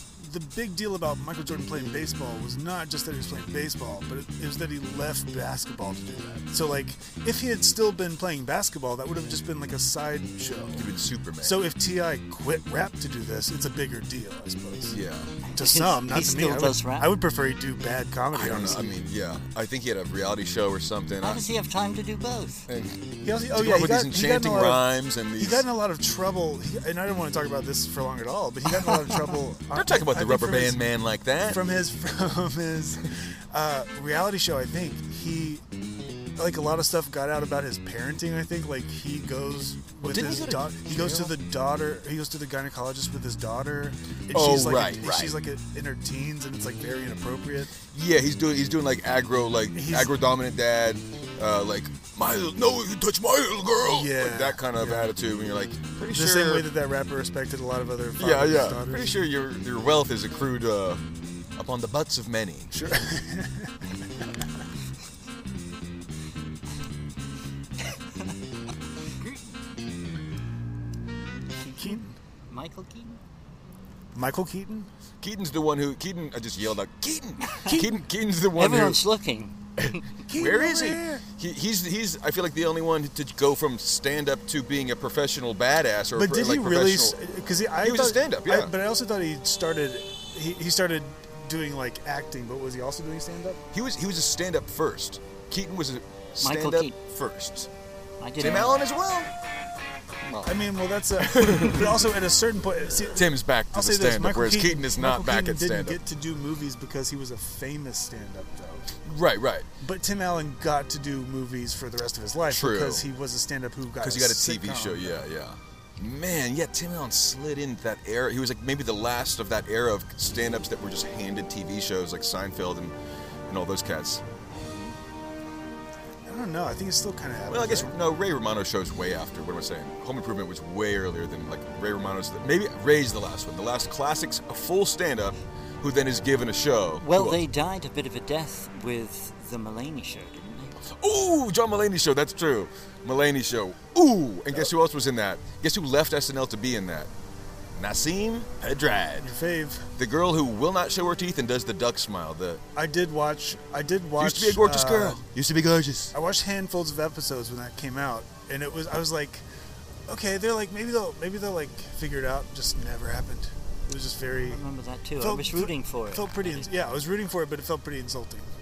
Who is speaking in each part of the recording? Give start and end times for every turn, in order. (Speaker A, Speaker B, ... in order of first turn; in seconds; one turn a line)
Speaker A: 0.2-10.9
Speaker B: 10.8-11.6
Speaker A: 11.4-15.0
Speaker B: 14.9-15.3
Speaker C: 15.5-17.1
Speaker A: 15.6-19.0
Speaker B: 18.3-21.4
Speaker C: 21.2-22.7
Speaker B: 22.7-25.6
Speaker A: 23.2-30.8
Speaker B: 29.7-31.6
Speaker A: 31.5-35.6
Speaker A: 36.4-47.8
Speaker B: 40.0-41.4
Speaker B: 44.3-45.4
Speaker B: 47.9-56.7
Speaker A: 49.7-50.1
Speaker A: 53.9-55.1
Speaker A: 56.1-59.1
Speaker B: 58.2-61.0
Speaker B: 61.6-62.8
Speaker A: 62.7-63.8
Speaker C: 67.8-68.4
Speaker C: 69.1-69.5
Speaker C: 71.5-73.2
Speaker A: 71.8-72.1
Speaker A: 74.2-74.9
Speaker B: 75.2-79.0
Speaker C: 77.4-77.8
Speaker C: 78.5-80.0
Speaker B: 79.8-87.2
Speaker A: 80.3-81.2
Speaker A: 86.2-93.6
Speaker B: 87.8-88.7
Speaker B: 93.7-97.7
Speaker C: 96.4-97.0
Speaker C: 98.2-98.8
Speaker B: 98.4-99.3
Speaker B: 100.2-100.6
Speaker A: 100.4-109.0
Speaker B: 101.2-102.0
Speaker B: 103.1-106.0
Speaker B: 109.0-109.7
Speaker A: 109.8-115.2
Speaker B: 112.5-113.0
Speaker B: 114.0-123.0
Speaker B: 123.5-124.2
Speaker A: 126.3-128.0
Speaker B: 127.5-137.4
Speaker C: 137.0-140.8
Speaker B: 140.8-147.1
Speaker B: 147.8-149.3
Speaker A: 149.2-149.9
Speaker B: 150.0-152.6
Speaker A: 152.8-155.2
Speaker B: 154.2-156.1
Speaker A: 156.1-159.4
Speaker A: 160.1-164.6
Speaker C: 164.4-166.7
Speaker A: 165.2-168.5